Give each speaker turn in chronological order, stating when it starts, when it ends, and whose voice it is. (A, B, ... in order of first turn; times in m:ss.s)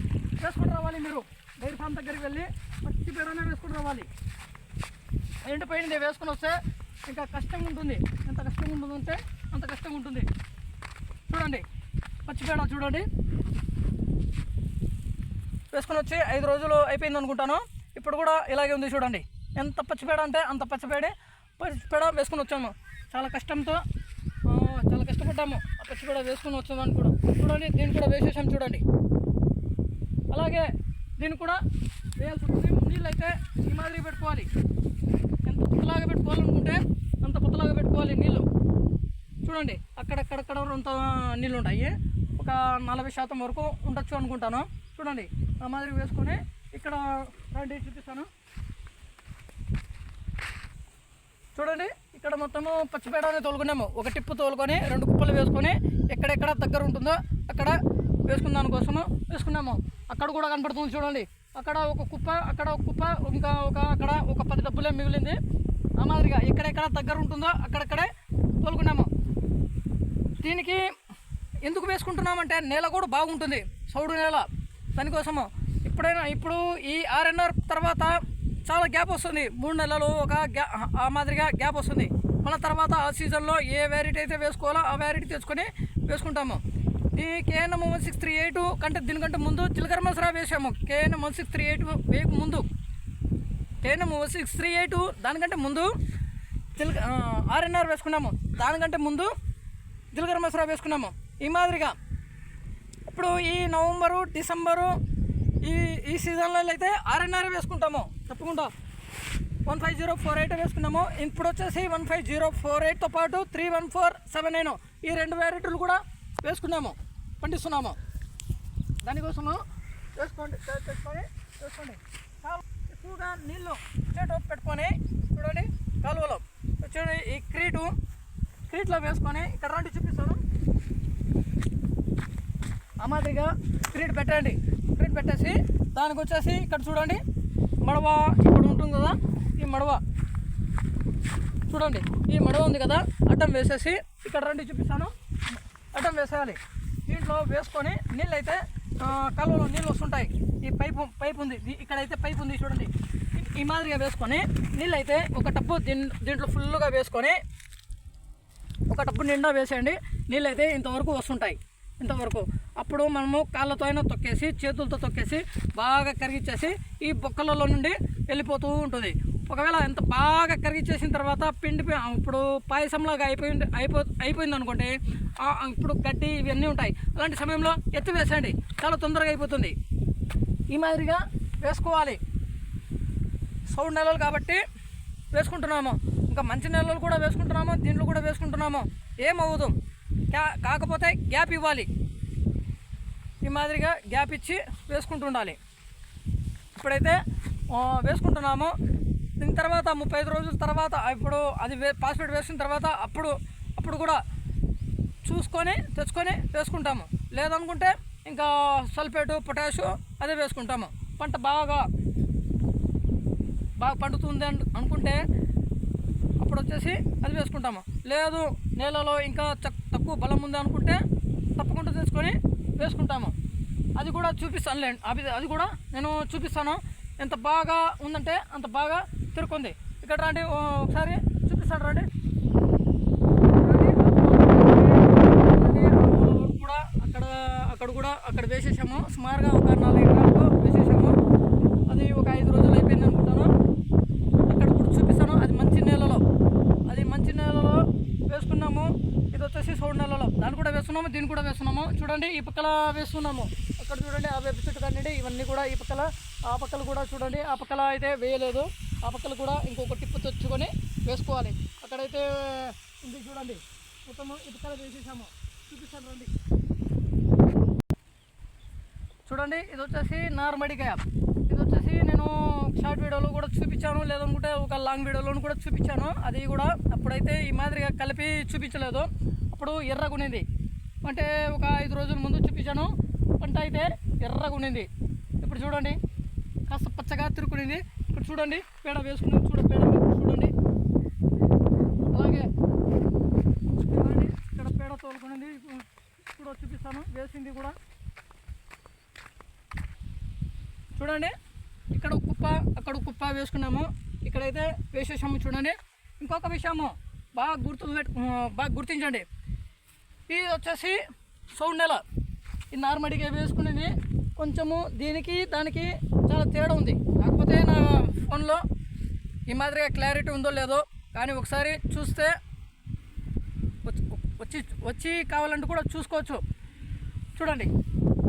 0:00.4-0:04.1 A
0:05.4-0:10.3 A
0:11.3-0:11.6 A
0:12.3-0:13.1 A
0:15.7-0:23.8 A
0:24.5-0:28.8 A
0:30.3-0:31.6 A
0:32.2-0:34.5 A
0:35.4-0:38.5 A
0:39.4-0:48.3 A
0:51.5-1:05.4 A
1:06.0-1:09.1 A
1:10.4-1:10.8 A
1:11.6-1:26.6 A
1:27.1-1:32.6 A
1:33.8-1:35.9 A
1:36.8-1:39.3 A
1:40.1-1:42.0 A
1:43.1-1:45.0 A
1:45.6-1:48.7 A
1:49.6-1:58.0 A
1:59.0-1:59.6 A
2:00.2-2:08.0 A
2:08.7-2:10.4 A
2:13.0-2:17.2 A
2:17.8-2:20.0 A
2:21.7-2:25.1 A
2:25.9-2:37.4 A
2:38.9-2:59.7 A
3:00.7-3:02.2 A
3:03.7-3:04.6 A
3:05.3-3:09.7 A
3:10.3-3:11.9 A
3:13.4-3:15.6 A
3:16.8-3:18.7 A
3:19.4-3:24.2 A
3:25.2-3:31.8 A
3:33.8-3:35.2 A
3:36.4-3:41.0 A
3:41.6-3:43.3 A
3:44.0-3:52.1 A
3:53.6-4:01.2 A
4:01.9-4:03.5 A
4:04.4-4:06.2 A
4:06.9-4:26.3 A
4:29.3-4:40.4 A
4:41.0-4:44.9 A
4:45.4-4:46.0 A
4:46.7-4:50.5 A
4:52.1-4:52.5 A
4:53.8-4:57.7 A
5:00.9-5:01.3 A
5:01.9-5:09.2 A
5:10.3-5:11.0 A
5:11.5-5:12.0 A
5:12.7-5:18.6 A
5:19.5-5:22.4 A
5:23.8-5:26.4 A
5:27.4-5:27.7 A